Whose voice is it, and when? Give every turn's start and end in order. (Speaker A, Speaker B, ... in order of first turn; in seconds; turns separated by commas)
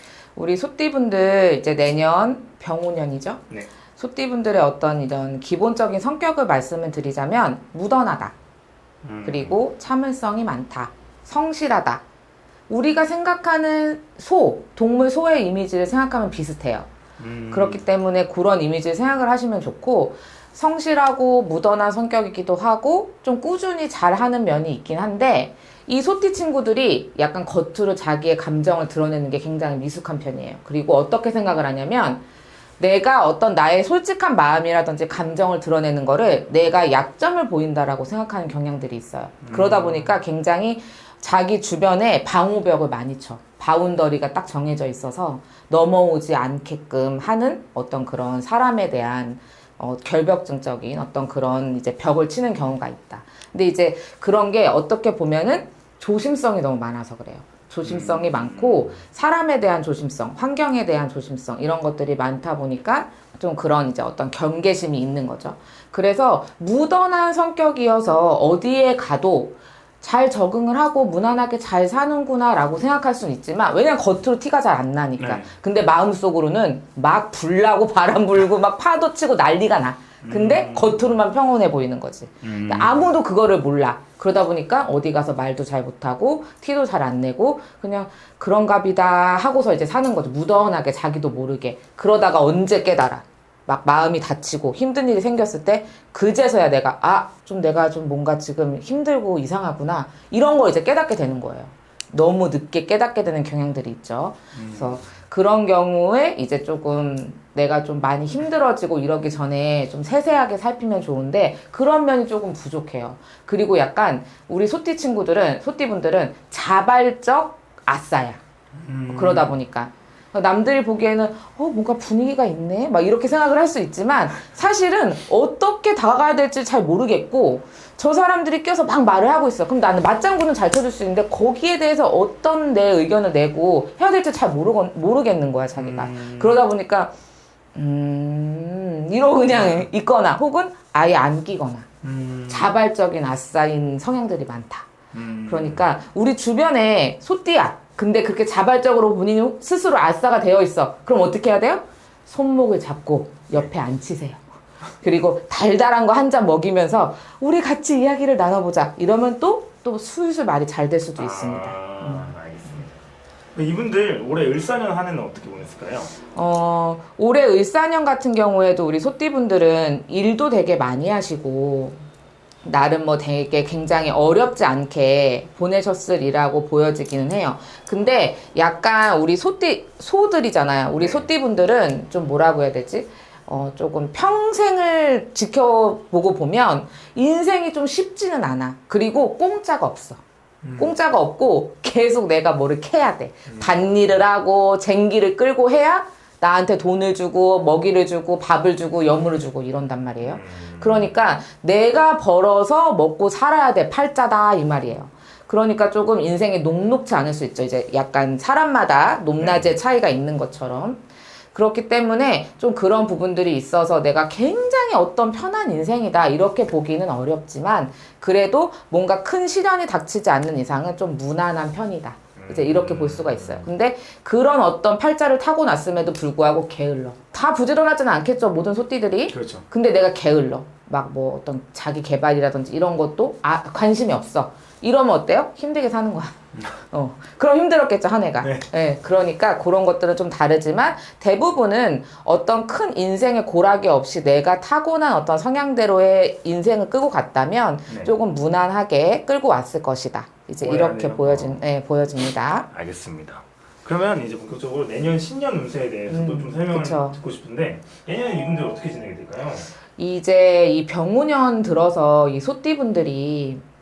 Speaker A: 0.3-8.3, Speaker B: 9.0-9.6, Speaker A: 9.2-12.0, Speaker A: 12.7-16.9, Speaker B: 17.2-17.8, Speaker A: 17.5-32.2, Speaker A: 32.8-118.4, Speaker B: 39.4-40.1, Speaker B: 57.8-59.0, Speaker B: 75.2-75.5, Speaker B: 80.2-81.1, Speaker B: 82.4-83.1, Speaker B: 104.5-105.0, Speaker B: 118.8-119.5, Speaker A: 119.1-137.1, Speaker B: 135.8-136.6, Speaker A: 137.8-141.9, Speaker B: 139.6-139.8, Speaker B: 142.0-142.7, Speaker A: 142.5-144.9, Speaker B: 145.1-145.9, Speaker A: 145.5-154.4, Speaker A: 155.0-162.8, Speaker B: 161.2-162.9, Speaker B: 163.5-166.2, Speaker A: 166.3-172.0, Speaker A: 172.6-190.2, Speaker B: 181.0-181.2, Speaker B: 190.6-190.9, Speaker A: 190.8-211.0, Speaker B: 193.5-194.2, Speaker B: 200.2-201.2, Speaker B: 209.4-209.7, Speaker A: 211.5-236.4, Speaker B: 222.4-223.7, Speaker B: 229.3-229.6, Speaker A: 236.9-252.7, Speaker B: 238.4-238.7, Speaker B: 250.6-251.6, Speaker B: 252.7-259.7, Speaker A: 256.1-257.2, Speaker A: 260.0-263.6